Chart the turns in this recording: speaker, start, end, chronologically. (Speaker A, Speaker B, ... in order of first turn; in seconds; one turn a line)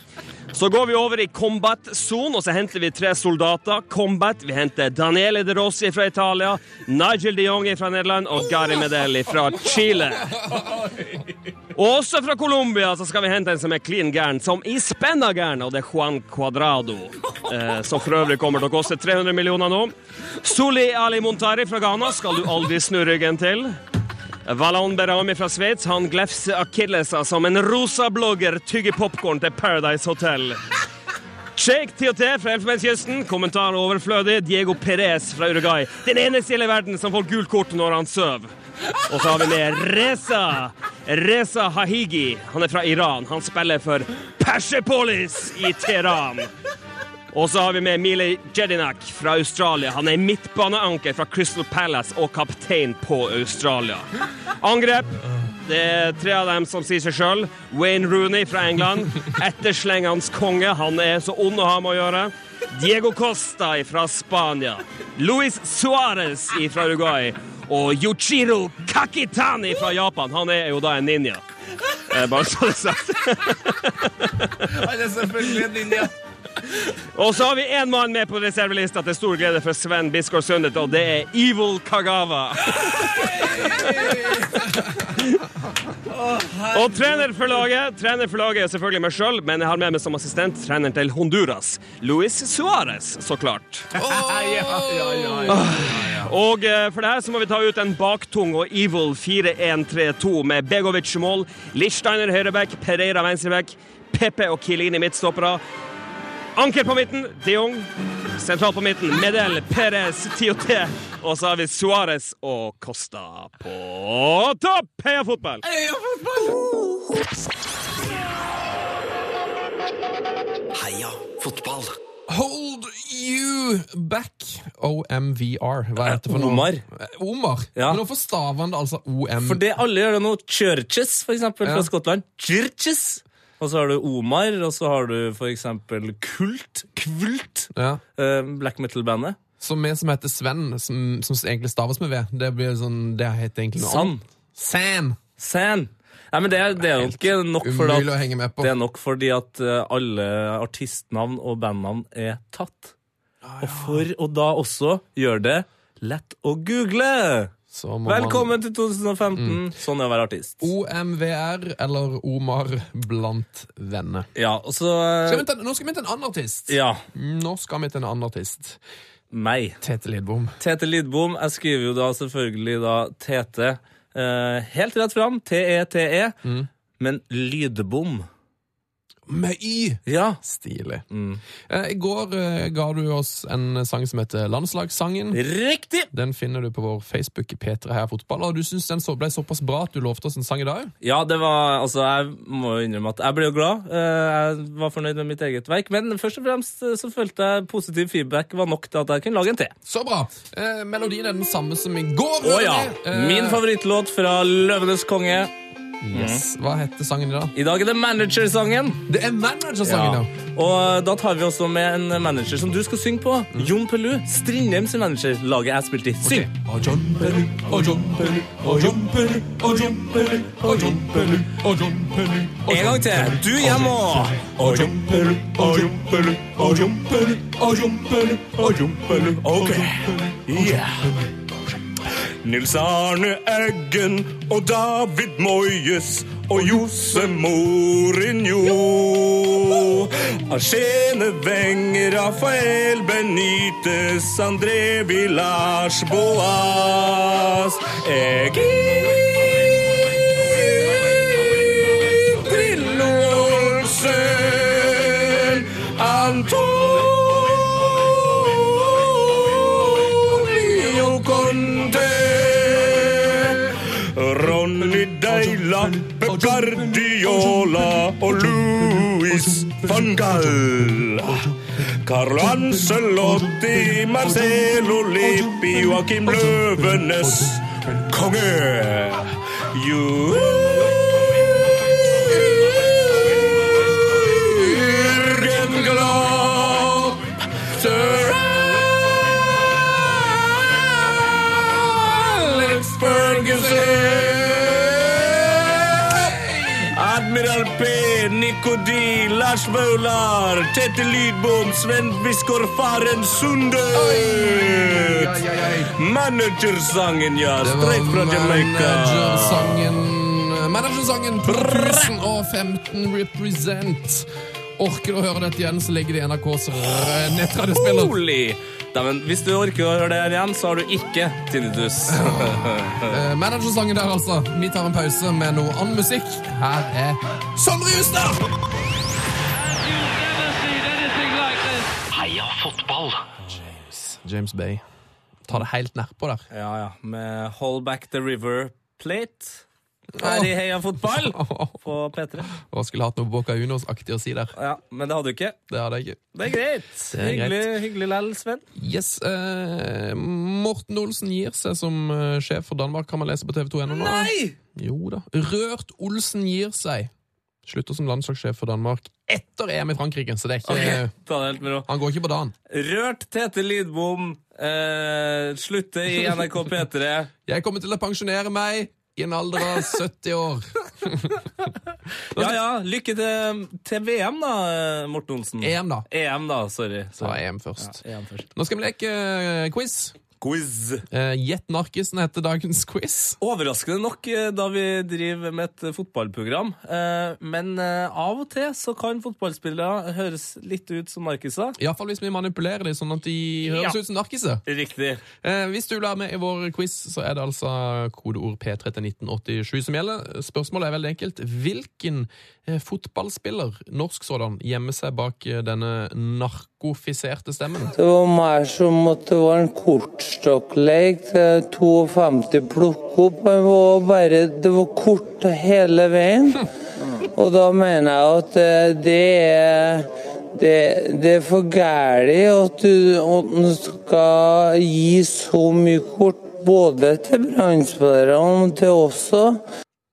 Speaker A: 0.5-10.4
Speaker B: 10.6-11.2
Speaker A: 11.8-23.7
Speaker A: 24.5-30.6
Speaker A: 31.6-38.5
Speaker A: 39.1-46.5
Speaker A: 47.3-54.1
Speaker A: 54.6-55.1
Speaker A: 55.6-71.4
Speaker A: 72.0-74.6
Speaker B: 74.7-76.1
Speaker A: 77.2-83.3
Speaker C: 82.9-85.0
Speaker B: 86.2-86.7
Speaker A: 86.7-93.9
Speaker C: 94.0-95.8
Speaker B: 94.0-96.2
Speaker A: 95.6-105.6
Speaker A: 106.6-115.6
Speaker B: 116.1-116.5
Speaker D: 120.7-122.0
Speaker C: 122.3-129.7
Speaker B: 126.0-126.8
Speaker B: 127.8-128.0
Speaker B: 129.4-139.4
Speaker C: 131.6-131.9
Speaker C: 137.8-138.0
Speaker C: 139.6-145.2
Speaker B: 143.8-144.2
Speaker B: 145.4-152.9
Speaker C: 146.8-148.7
Speaker C: 153.4-154.1
Speaker B: 153.6-157.5
Speaker C: 157.7-158.6
Speaker B: 158.1-160.6
Speaker C: 159.4-159.6
Speaker C: 160.6-164.3
Speaker B: 164.4-165.4
Speaker C: 165.3-168.8
Speaker B: 166.7-167.0
Speaker B: 169.3-169.8
Speaker C: 169.8-170.6
Speaker B: 170.6-176.4
Speaker B: 177.0-178.3
Speaker C: 179.3-181.1
Speaker B: 180.1-180.4
Speaker B: 181.1-181.4
Speaker C: 181.7-185.4
Speaker B: 185.3-186.1
Speaker C: 186.1-190.9
Speaker B: 191.0-199.7
Speaker C: 199.9-203.6
Speaker B: 202.4-205.5
Speaker C: 206.0-207.5
Speaker B: 206.1-206.4
Speaker B: 207.6-209.0
Speaker C: 209.1-210.3
Speaker B: 209.8-216.5
Speaker C: 216.2-225.9
Speaker B: 218.7-219.1
Speaker B: 220.2-221.5
Speaker B: 222.7-231.2
Speaker C: 226.6-227.1
Speaker B: 232.4-249.3
Speaker B: 250.5-281.2
Speaker B: 282.2-288.5
Speaker C: 284.4-286.1
Speaker C: 287.8-289.4
Speaker C: 290.0-296.9
Speaker B: 292.3-296.1
Speaker B: 296.9-305.4
Speaker C: 303.9-305.9
Speaker B: 305.9-310.0
Speaker C: 307.6-318.1
Speaker B: 311.5-312.1
Speaker B: 317.8-323.2
Speaker C: 322.1-328.5
Speaker B: 330.0-331.4
Speaker D: 332.1-333.2
Speaker B: 333.4-333.7
Speaker C: 334.0-334.8
Speaker C: 335.5-336.4
Speaker B: 336.5-339.6
Speaker C: 340.2-341.8
Speaker B: 340.2-342.5
Speaker C: 342.5-344.5
Speaker B: 344.6-345.6
Speaker C: 345.7-346.3
Speaker B: 346.4-348.6
Speaker C: 347.1-347.7
Speaker C: 348.8-357.1
Speaker B: 353.9-354.6
Speaker C: 357.6-361.1
Speaker B: 360.7-361.9
Speaker C: 361.9-362.5
Speaker B: 362.7-367.3
Speaker C: 367.5-371.4
Speaker B: 372.4-378.5
Speaker C: 375.6-376.1
Speaker C: 377.2-378.0
Speaker C: 378.6-380.1
Speaker B: 380.4-381.0
Speaker C: 381.1-383.4
Speaker B: 383.4-391.8
Speaker C: 391.8-394.6
Speaker B: 393.7-394.0
Speaker B: 394.7-395.2
Speaker C: 395.4-407.9
Speaker E: 408.0-416.7
Speaker E: 417.4-429.6